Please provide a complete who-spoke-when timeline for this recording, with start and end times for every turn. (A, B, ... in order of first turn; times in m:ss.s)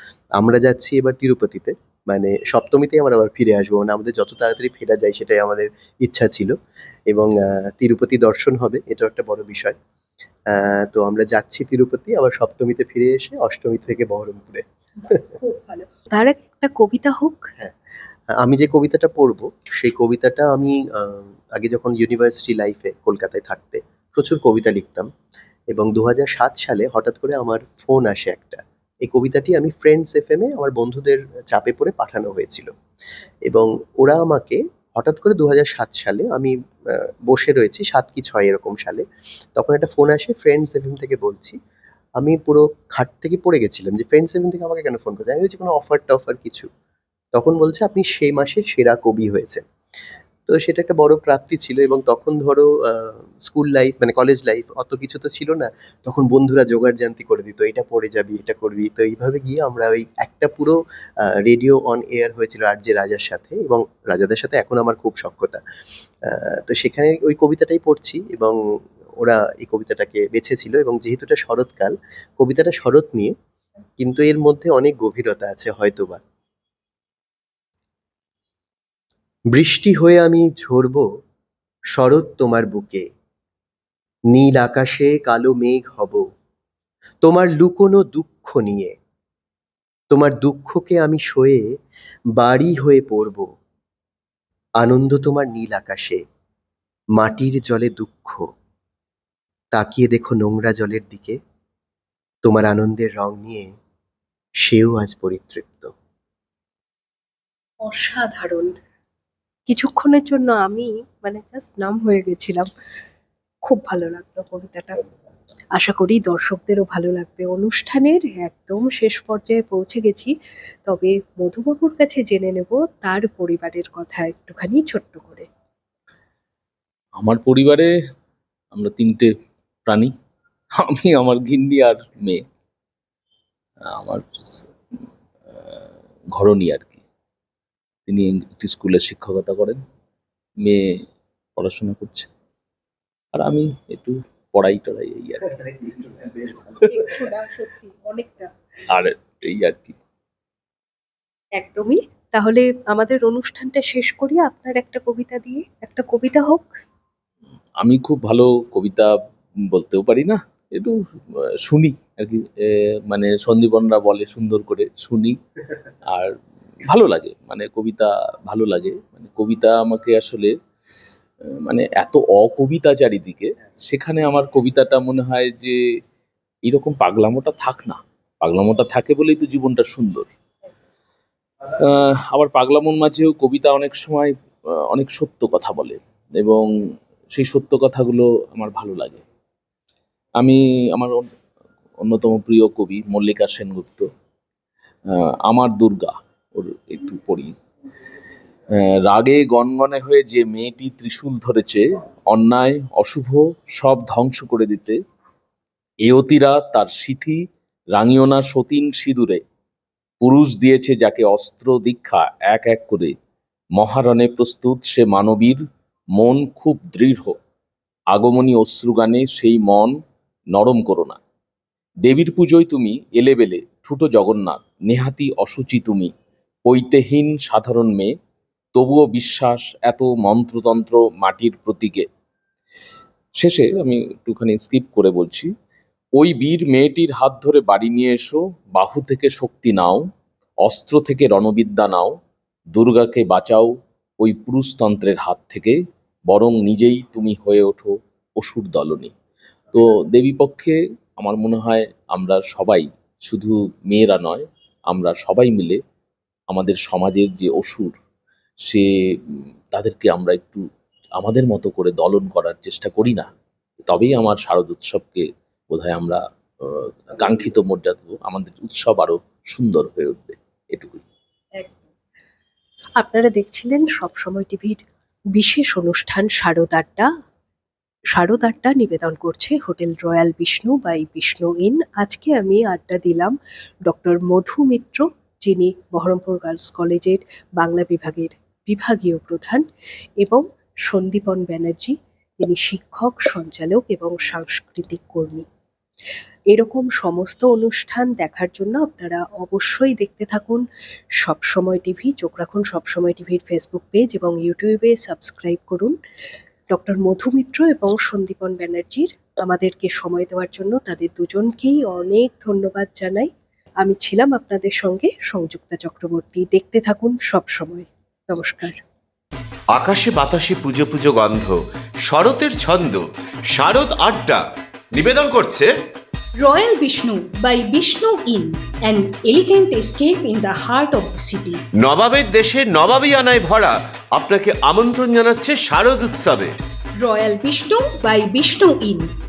0:00.4-0:06.6 A
0:07.1-0:09.8 A
0:10.5-0:15.3 A
0:15.4-0:17.4 B
0:18.4-0:25.1 A
0:25.7-0:32.7 A
0:33.4-0:39.0 A
0:39.6-0:41.6 A
0:42.2-0:46.7 A
0:47.3-0:49.6 A
0:50.5-1:05.6 A
1:06.2-1:08.6 A
1:09.2-1:13.3 A
1:14.0-1:16.2 A
1:19.5-1:21.0 A
1:21.9-1:23.1 A
1:24.3-1:26.2 A
1:27.2-1:29.0 A
1:30.1-1:31.7 A
1:32.3-1:33.5 A
1:34.8-1:36.2 A
1:37.2-1:38.5 A
1:39.7-1:41.4 A
1:42.4-1:43.7 A
1:44.6-1:45.9 A
1:47.8-1:48.7 B
1:49.7-1:52.7 B
1:53.6-1:55.0 B
1:55.7-2:00.3 B
2:00.8-2:05.5 B
2:07.2-2:07.9 C
2:08.7-2:09.3 C
2:09.9-2:10.1 C
2:10.8-2:12.4 C
2:13.8-2:14.7 C
2:15.5-2:17.0 C
2:18.1-2:19.8 C
2:20.6-2:20.9 C
2:21.6-2:22.3 C
2:23.3-2:25.6 C
2:25.5-2:27.0 A
2:26.9-2:28.5 B
2:28.9-2:30.0 C
2:31.6-2:36.7 B
2:37.8-2:39.1 C
2:39.7-2:45.4 C
2:46.1-2:50.5 C
2:51.6-2:55.8 C
2:56.6-3:00.3 C
3:01.8-3:04.3 C
3:04.9-3:06.7 C
3:07.3-3:09.2 C
3:10.4-3:11.2 C
3:12.0-3:14.1 C
3:15.1-3:17.5 C
3:18.7-3:25.0 C
3:26.0-3:27.4 C
3:27.9-3:29.4 C
3:30.2-3:33.1 C
3:33.8-3:35.6 C
3:36.2-3:37.4 C
3:38.1-3:39.9 C
3:40.5-3:41.2 C
3:42.0-3:46.1 C
3:46.6-3:48.1 C
3:48.7-3:52.0 C
3:53.4-3:55.5 C
3:56.2-4:00.0 C
4:00.6-4:02.2 C
4:02.7-4:09.1 C
4:09.7-4:15.8 C
4:16.5-4:17.9 C
4:18.6-4:20.6 C
4:21.2-4:23.3 C
4:23.8-4:31.0 C
4:31.6-4:31.8 B
4:33.0-4:34.8 B
4:35.3-4:37.1 B
4:38.1-4:43.3 B
4:43.8-4:49.6 B
4:50.2-4:55.4 B
4:56.5-5:00.6 B
5:01.2-5:05.9 B
5:06.7-5:13.3 B
5:13.8-5:18.8 B
5:19.7-5:24.4 D
5:24.9-5:25.7 D
5:26.4-5:31.6 E
5:31.8-5:36.5 D
5:37.0-5:39.1 E